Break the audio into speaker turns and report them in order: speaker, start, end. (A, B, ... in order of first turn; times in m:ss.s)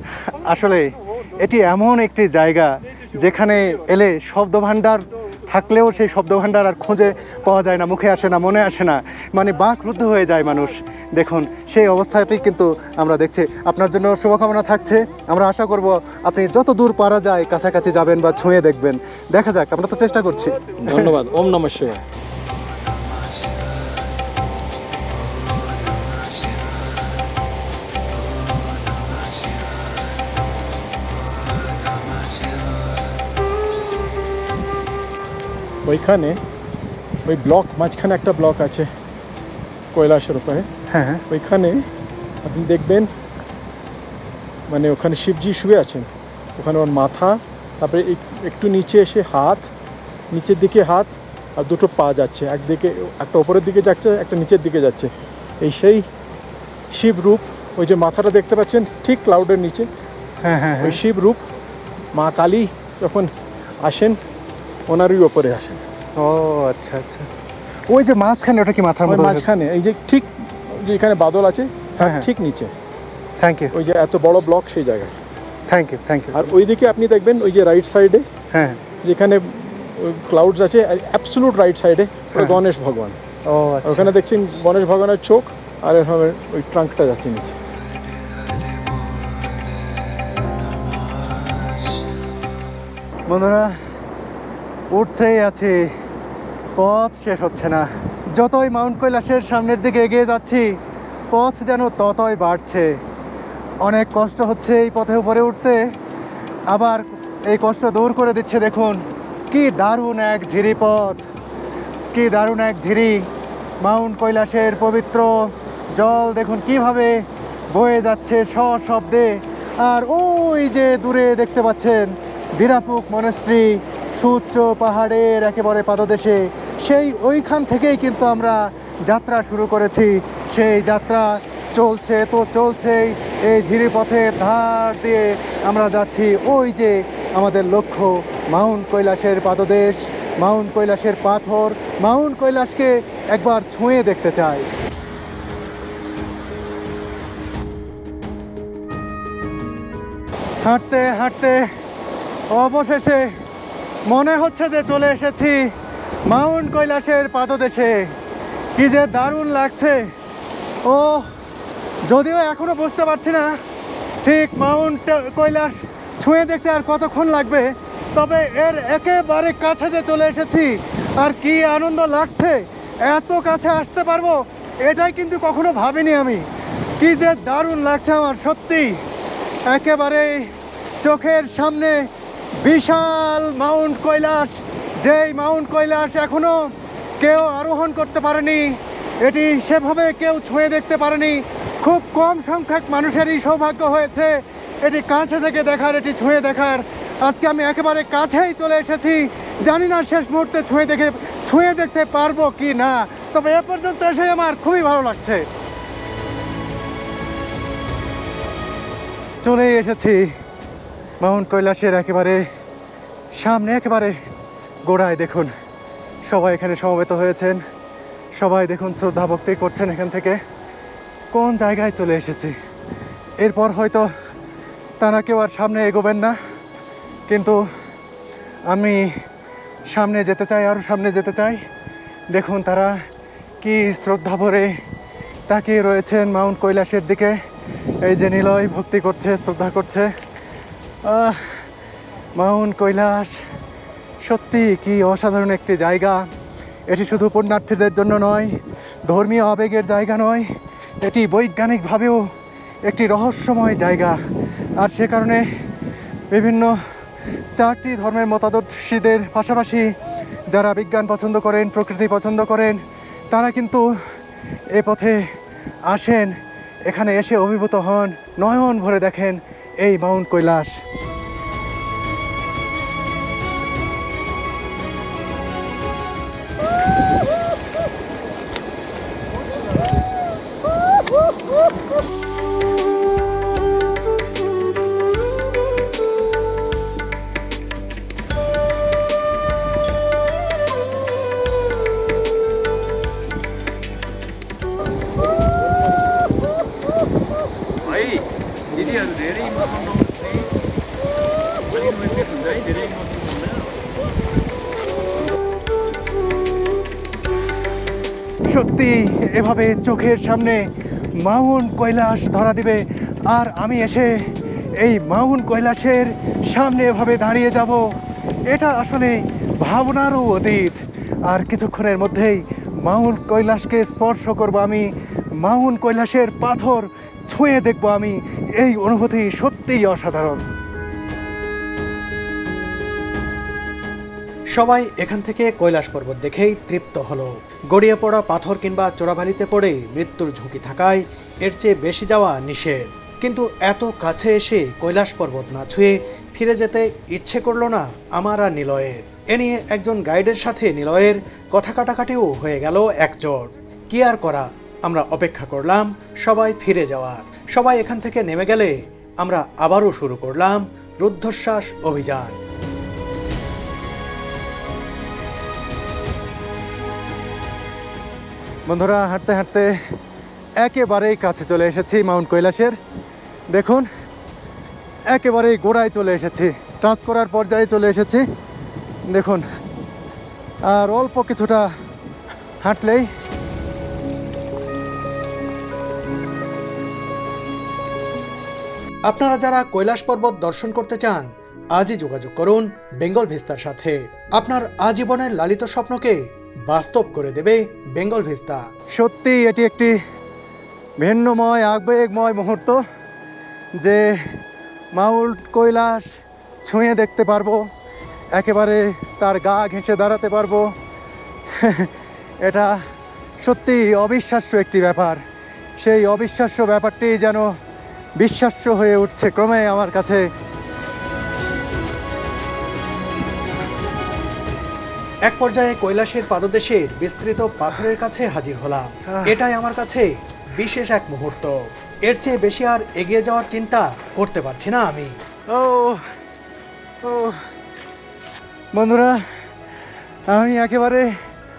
0:00.2-0:21.1 A
0:20.8-0:22.0 B
0:35.8-0:36.4 B
0:37.2-0:38.9 B
0:39.9-0:40.7 B
0:40.9-0:41.2 A
0:41.3-0:41.9 B
0:42.4-0:43.1 B
0:44.7-0:49.7 B
0:50.3-0:56.0 B
0:56.9-0:59.9 B
1:00.4-1:01.0 A
1:00.8-1:01.4 B
1:02.1-1:03.3 B
1:03.8-1:04.2 B
1:04.9-1:05.8 B
1:06.2-1:07.3 A
1:07.9-1:09.4 A
1:09.0-1:12.7 B
1:12.0-1:12.3 A
1:13.4-1:13.7 A
1:13.7-1:15.1 B
1:15.7-1:16.5 A
1:16.3-1:18.2 B
1:18.5-1:18.8 A
1:19.0-1:23.2 B
1:23.5-1:24.1 A
1:23.8-1:27.6 B
1:33.3-1:33.7 A
1:34.9-1:35.8 A
1:36.8-1:40.7 A
1:41.3-1:42.9 A
1:43.8-1:45.8 A
1:46.7-1:51.2 A
1:52.1-1:53.2 A
1:53.8-2:24.7 A
2:30.6-2:31.6 A
2:32.5-2:33.3 A
2:34.1-2:35.7 A
2:36.3-2:38.0 A
2:38.8-2:40.0 A
2:40.8-2:41.3 A
2:42.0-2:43.5 A
2:44.2-2:56.4 A
2:57.0-2:58.9 A
2:59.7-3:00.4 A
3:01.0-3:02.0 A
3:02.6-3:06.7 A
3:07.2-3:25.5 A
3:29.4-3:30.2 A
3:31.2-3:32.4 A
3:33.3-3:34.2 A
3:34.8-3:35.5 A
3:36.3-3:37.6 A
3:38.4-3:40.4 A
3:41.3-3:42.5 A
3:43.4-3:44.1 A
3:45.0-3:46.4 A
3:47.3-3:47.6 A
3:48.7-3:49.0 A
3:49.9-3:51.6 A
3:52.3-3:52.9 A
3:53.6-3:54.7 A
3:55.5-3:57.3 A
3:58.0-4:00.1 A
4:01.0-4:01.4 A
4:02.4-4:03.3 A
4:04.2-4:06.2 A
4:06.9-4:08.5 A
4:09.1-4:10.5 A
4:11.0-4:12.2 A
4:12.9-4:14.2 A
4:14.8-4:15.4 A
4:16.3-4:16.8 A
4:17.6-4:19.9 A
4:20.5-4:22.8 A
4:23.3-4:23.8 A
4:24.8-4:25.2 A
4:25.9-4:26.3 A
4:26.9-4:30.7 A
5:02.1-5:03.2 B
5:08.5-5:10.7 A
5:11.2-5:17.8 A
5:18.5-5:30.4 A
5:34.5-6:02.4 C
6:08.7-6:09.7 A
6:10.6-6:12.8 A
6:13.5-6:13.9 A
6:15.1-6:18.2 A
6:19.1-6:19.4 A
6:20.7-6:21.7 A
6:22.6-6:23.1 A
6:29.1-6:38.6 C
6:39.0-6:40.0 A
6:41.0-6:42.8 A
6:43.8-6:44.0 A
6:45.0-6:46.1 A
6:46.6-6:47.6 A
6:48.3-6:50.7 A
6:51.5-6:51.9 A
6:52.4-6:52.8 A
6:53.4-6:55.2 A
6:55.8-6:57.5 A
6:58.2-7:00.2 A
7:05.2-7:15.1 C
7:09.1-7:09.4 A
7:15.5-7:16.0 A
7:17.0-7:17.4 A
7:18.7-7:19.2 A
7:20.3-7:21.1 A